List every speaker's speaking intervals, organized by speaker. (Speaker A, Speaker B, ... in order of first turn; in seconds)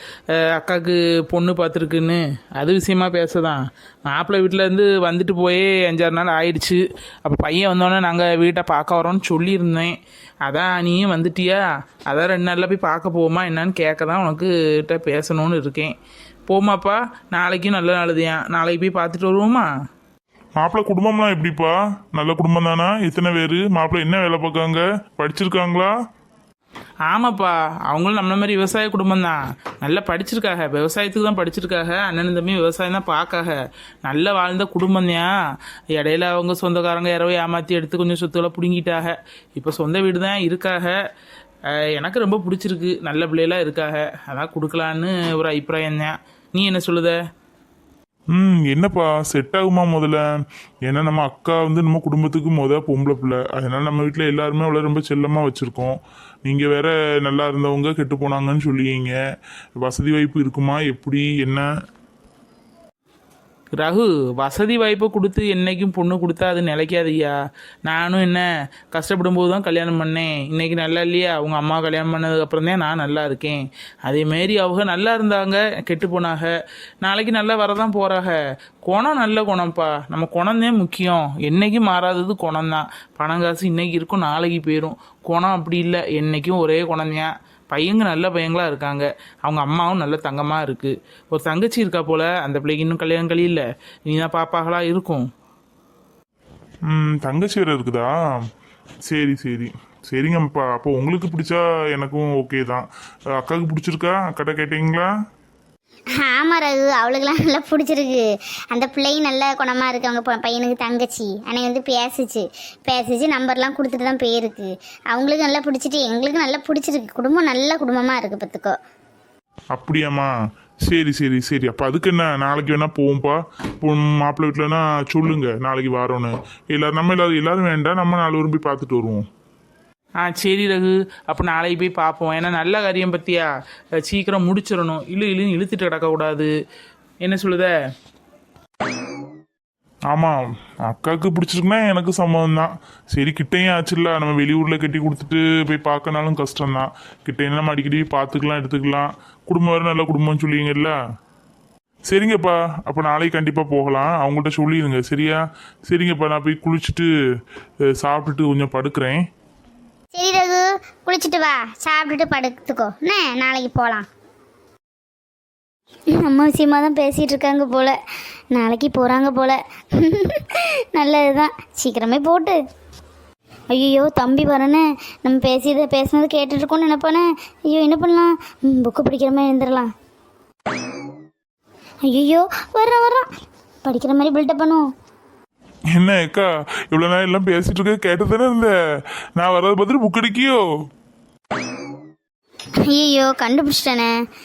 Speaker A: 0.5-15.9, 16.5-19.7, 27.1-35.3, 36.0-41.0, 42.0-47.2, 63.8-67.3, 67.9-95.2, 130.2-136.5, 137.2-137.7
Speaker B: 20.6-25.9, 48.4-50.2, 50.9-59.1, 59.8-61.6, 96.9-98.1, 99.1-102.8, 103.4-105.1, 119.7-120.3, 120.9-129.2, 140.1-150.9, 152.1-157.1, 157.9-159.2, 185.9-188.7, 189.4-190.6
Speaker C: 106.2-118.8, 160.1-164.1, 166.2-168.0, 168.5-172.6, 173.7-179.9, 182.1-183.3, 183.8-184.9, 192.9-194.1